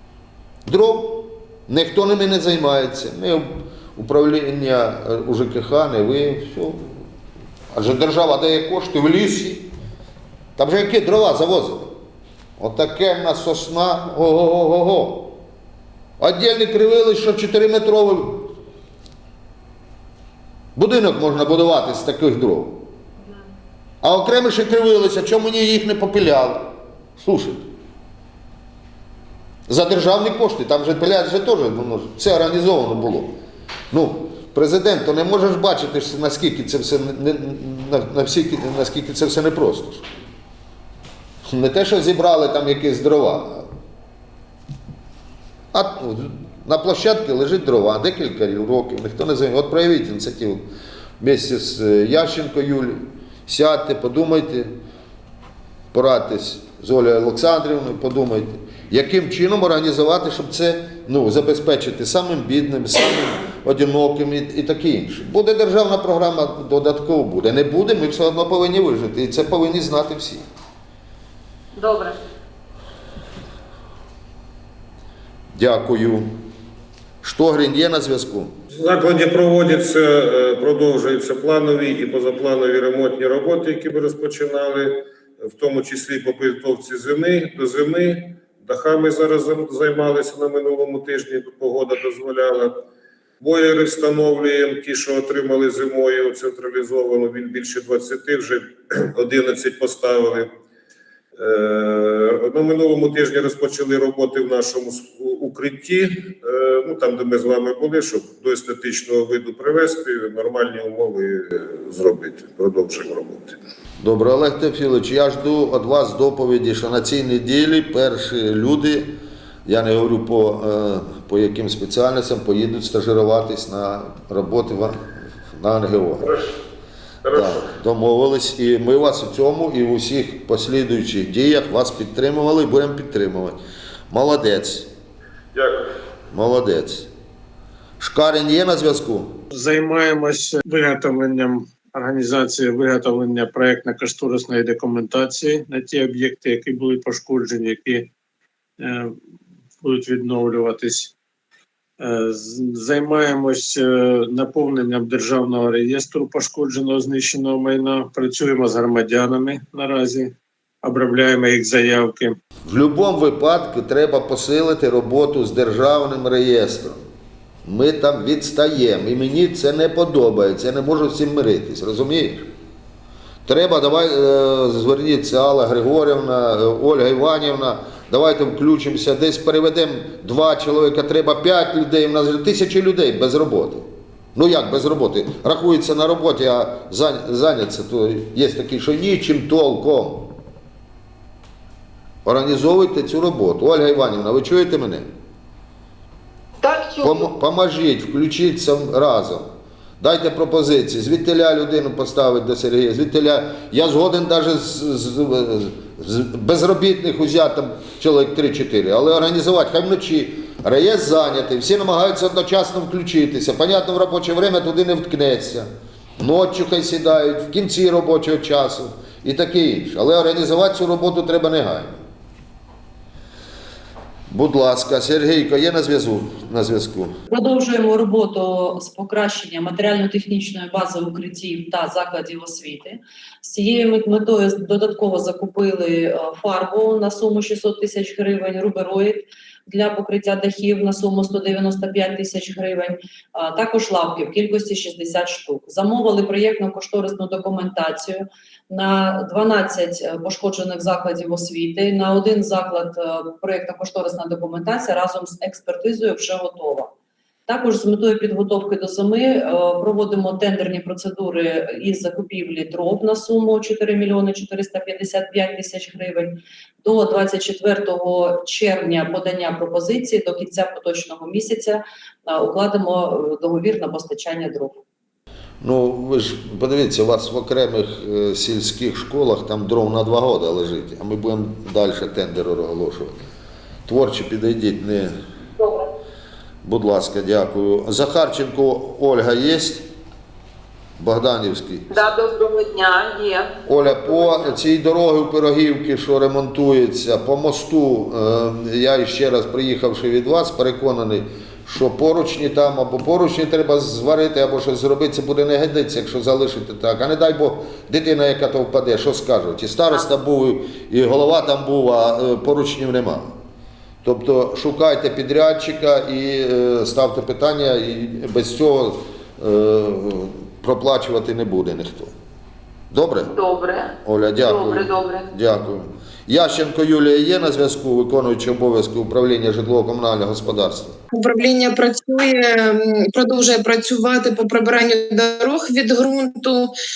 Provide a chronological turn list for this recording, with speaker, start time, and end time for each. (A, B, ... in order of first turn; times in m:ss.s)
0:00.6-0:07.0 A
0:07.7-0:09.7 A
0:10.6-0:11.9 A
0:12.6-0:15.4 A
0:16.2-0:18.5 A
0:20.7-0:22.9 A
0:24.0-0:27.6 A
0:29.7-0:33.4 A
0:33.9-0:40.1 A
0:41.4-0:43.7 A
0:45.7-0:50.6 A
0:51.2-0:54.7 A
0:55.9-1:10.4 A
1:11.7-1:12.2 B
1:15.5-1:16.3 A
1:17.2-1:18.5 A
1:18.7-1:32.8 C
1:33.4-1:40.5 C
1:41.4-1:53.6 C
1:54.0-1:59.1 A
1:59.6-2:06.3 A
2:06.2-2:06.5 C
2:07.2-2:07.6 C
2:07.3-2:14.9 A
2:15.5-2:15.9 C
2:16.3-2:17.1 A
2:18.0-2:19.4 A
2:19.5-2:28.1 D
2:28.8-2:29.2 D
2:29.8-2:31.1 D
2:32.0-2:42.4 D
2:42.6-2:47.0 A
2:47.6-2:52.5 A
2:53.4-3:10.3 A
3:12.2-3:15.1 A
3:16.6-3:17.2 B
3:17.0-3:19.5 A
3:20.0-3:35.7 A
3:36.2-3:42.0 A
3:44.3-3:47.1 A
3:47.3-4:16.9 E
4:17.5-4:34.8 E
4:35.6-4:43.2 A
4:43.8-4:45.2 A
4:46.6-4:49.8 A
4:51.0-4:52.0 A
4:51.9-4:53.5 B
4:53.6-5:13.4 A
4:54.1-4:54.5 B
5:14.0-5:22.1 A
5:22.9-5:23.3 A
5:23.4-5:23.8 B
5:24.0-5:30.9 A
5:24.4-5:25.2 B
5:31.1-5:36.7 F